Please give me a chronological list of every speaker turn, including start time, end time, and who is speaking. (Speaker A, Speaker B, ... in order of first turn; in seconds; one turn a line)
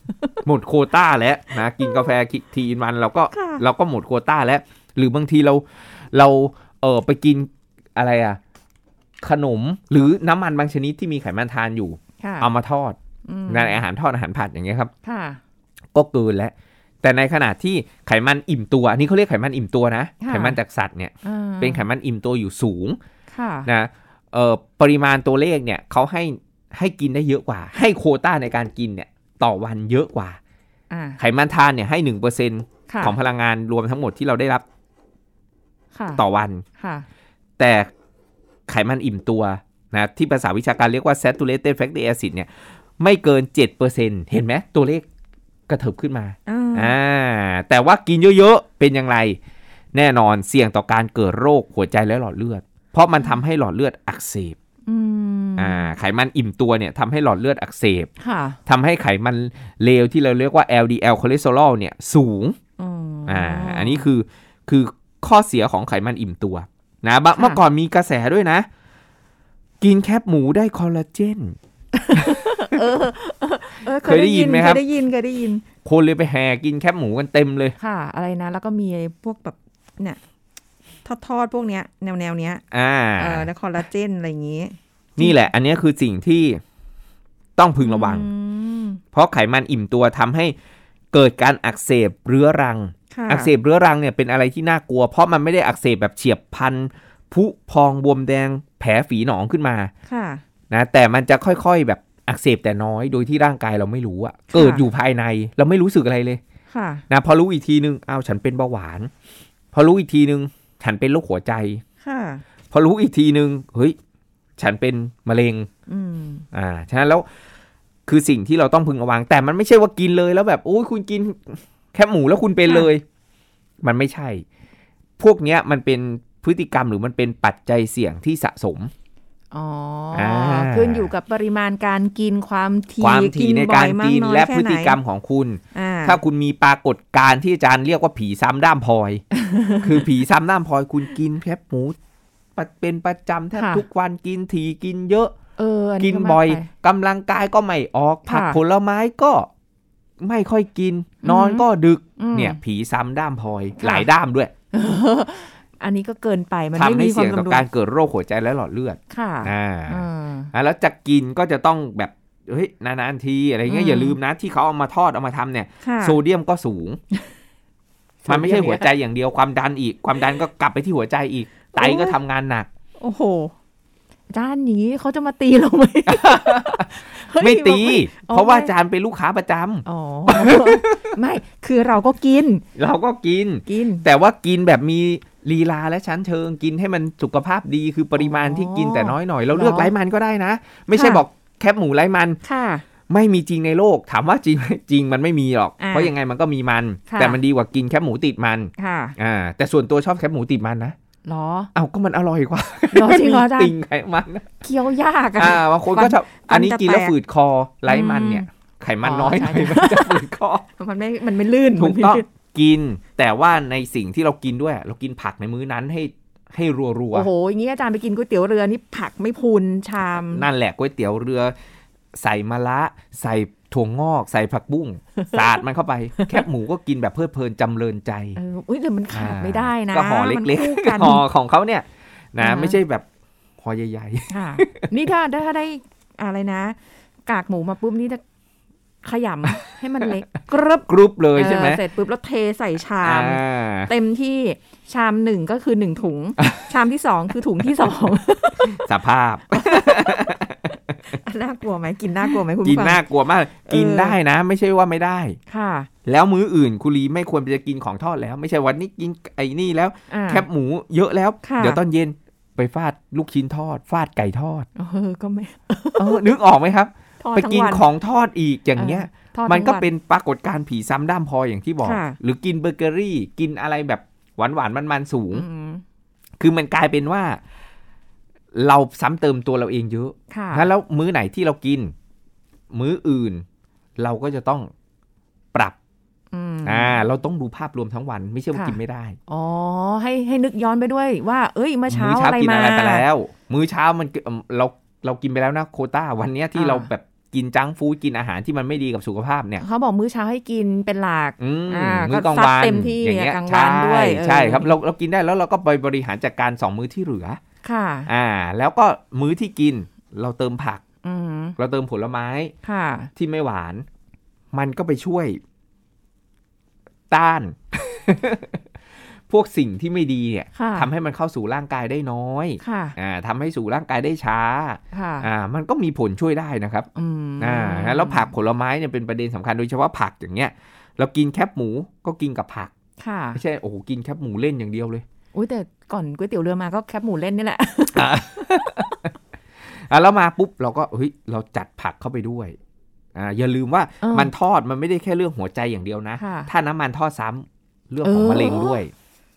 Speaker A: 0.4-8.4
Speaker B: 3.3-3.6
Speaker A: 9.2-14.9
Speaker B: 12.2-12.5
Speaker B: 13.3-13.8
Speaker B: 15.1-15.4
Speaker A: 15.9-23.0
Speaker B: 20.2-20.6
Speaker B: 21.2-21.9
Speaker B: 23.3-23.7
Speaker A: 23.7-30.4
Speaker B: 30.9-31.2
Speaker A: 31.2-34.6
Speaker B: 32.9-33.1
Speaker B: 36.0-36.2
Speaker A: 36.2-36.6
Speaker B: 36.8-37.1
Speaker A: 37.6-37.9
Speaker A: 38.7-45.1
Speaker A: 45.7-49.4
Speaker B: 46.5-46.9
Speaker A: 49.9-54.6
Speaker B: 54.9-55.9
Speaker A: 55.6-58.1
Speaker B: 58.2-58.6
Speaker A: 58.7-62.6
Speaker B: 62.8-64.1
Speaker A: 63.3-68.7
Speaker A: 69.8-71.6
Speaker B: 72.0-75.6
Speaker A: 72.1-72.6
Speaker A: 74.0-74.8
Speaker A: 75.8-77.8
Speaker B: 77.8-80.2
Speaker B: 81.0-82.6
Speaker A: 82.7-83.5
Speaker B: 83.2-85.4
Speaker A: 85.2-86.6
Speaker A: 87.6-88.3
Speaker B: 87.8-89.0
Speaker A: 89.1-90.5
Speaker A: 91.1-99.9
Speaker B: 93.1-93.5
Speaker B: 100.1-100.4
Speaker A: 100.7-106.4
Speaker B: 104.5-104.9
Speaker B: 106.7-107.0
Speaker A: 107.1-109.1
Speaker A: 109.7-111.8
Speaker B: 112.0-112.4
Speaker A: 112.7-114.0
Speaker A: 114.6-115.7
Speaker B: 115.9-116.5
Speaker A: 116.5-117.3
Speaker A: 118.1-123.0
Speaker A: 123.8-124.5
Speaker A: 125.2-128.9
Speaker B: 129.5-135.0
Speaker A: 130.1-131.1
Speaker A: 133.0-139.2
Speaker B: 135.7-136.2
Speaker B: 139.3-140.1
Speaker A: 139.8-142.0
Speaker A: 142.6-145.3
Speaker B: 143.5-143.8
Speaker B: 145.6-146.7
Speaker A: 146.0-149.5
Speaker B: 148.3-148.6
Speaker A: 150.2-154.5
Speaker B: 151.2-152.6
Speaker B: 153.8-154.1
Speaker B: 154.7-157.7
Speaker A: 156.8-167.0
Speaker B: 159.1-160.5
Speaker B: 163.7-164.2
Speaker B: 165.8-166.2
Speaker B: 168.2-168.9
Speaker A: 168.3-172.7
Speaker B: 171.7-172.2
Speaker B: 173.0-173.5
Speaker B: 174.3-178.7
Speaker A: 176.1-181.0
Speaker B: 179.9-182.7
Speaker A: 182.8-192.4
Speaker B: 183.7-184.1
Speaker B: 188.2-189.9
Speaker B: 190.9-191.2
Speaker B: 192.4-192.8
Speaker A: 193.1-201.0
Speaker B: 195.8-196.1
Speaker B: 197.1-197.4
Speaker B: 198.8-199.2
Speaker B: 201.3-201.7
Speaker A: 201.8-204.5
Speaker B: 202.9-203.8
Speaker B: 204.6-207.2
Speaker A: 205.4-210.7
Speaker B: 207.9-208.5
Speaker B: 209.0-210.2
Speaker B: 210.8-212.2
Speaker A: 211.8-217.3
Speaker B: 217.1-220.5
Speaker A: 220.2-221.6
Speaker A: 222.2-228.4
Speaker B: 225.2-225.6
Speaker B: 226.2-226.4
Speaker B: 228.4-231.2
Speaker A: 229.1-233.1
Speaker B: 232.4-232.8
Speaker A: 233.6-234.9
Speaker B: 234.3-236.8
Speaker B: 237.3-238.2
Speaker B: 239.0-248.8
Speaker A: 240.9-241.8
Speaker A: 243.0-243.9
Speaker A: 248.6-251.1
Speaker B: 249.5-250.4
Speaker B: 251.1-253.0
Speaker A: 252.2-255.4
Speaker B: 253.7-254.2
Speaker B: 255.5-255.9
Speaker A: 256.1-264.7
Speaker B: 260.1-260.5
Speaker B: 261.4-261.8
Speaker B: 264.8-266.3
Speaker A: 266.0-275.5
Speaker B: 267.2-267.8
Speaker B: 268.8-269.9
Speaker B: 271.8-272.2
Speaker B: 275.3-275.8
Speaker A: 276.4-277.4
Speaker A: 278.5-281.9
Speaker B: 280.3-280.7
Speaker A: 282.7-283.4
Speaker A: 284.0-284.7
Speaker B: 286.3-287.0
Speaker A: 286.6-289.2
Speaker B: 288.5-293.1
Speaker A: 291.9-299.6
Speaker B: 296.6-296.9
Speaker B: 299.6-304.7
Speaker A: 301.4-307.4
Speaker B: 307.6-308.1
Speaker A: 308.1-310.8
Speaker B: 311.0-311.6
Speaker A: 311.6-312.5
Speaker B: 312.6-313.1
Speaker A: 313.1-313.9
Speaker A: 314.5-315.4
Speaker A: 317.1-318.6
Speaker A: 319.3-326.9
Speaker B: 320.6-320.9
Speaker B: 322.6-323.0
Speaker B: 324.9-325.3
Speaker B: 326.9-328.3
Speaker A: 327.4-332.7
Speaker B: 333.0-333.4
Speaker A: 333.4-335.1
Speaker B: 335.3-338.9
Speaker A: 337.9-339.1
Speaker A: 339.7-342.6
Speaker A: 343.1-348.9
Speaker B: 344.0-344.3
Speaker B: 346.2-346.5
Speaker B: 348.0-348.8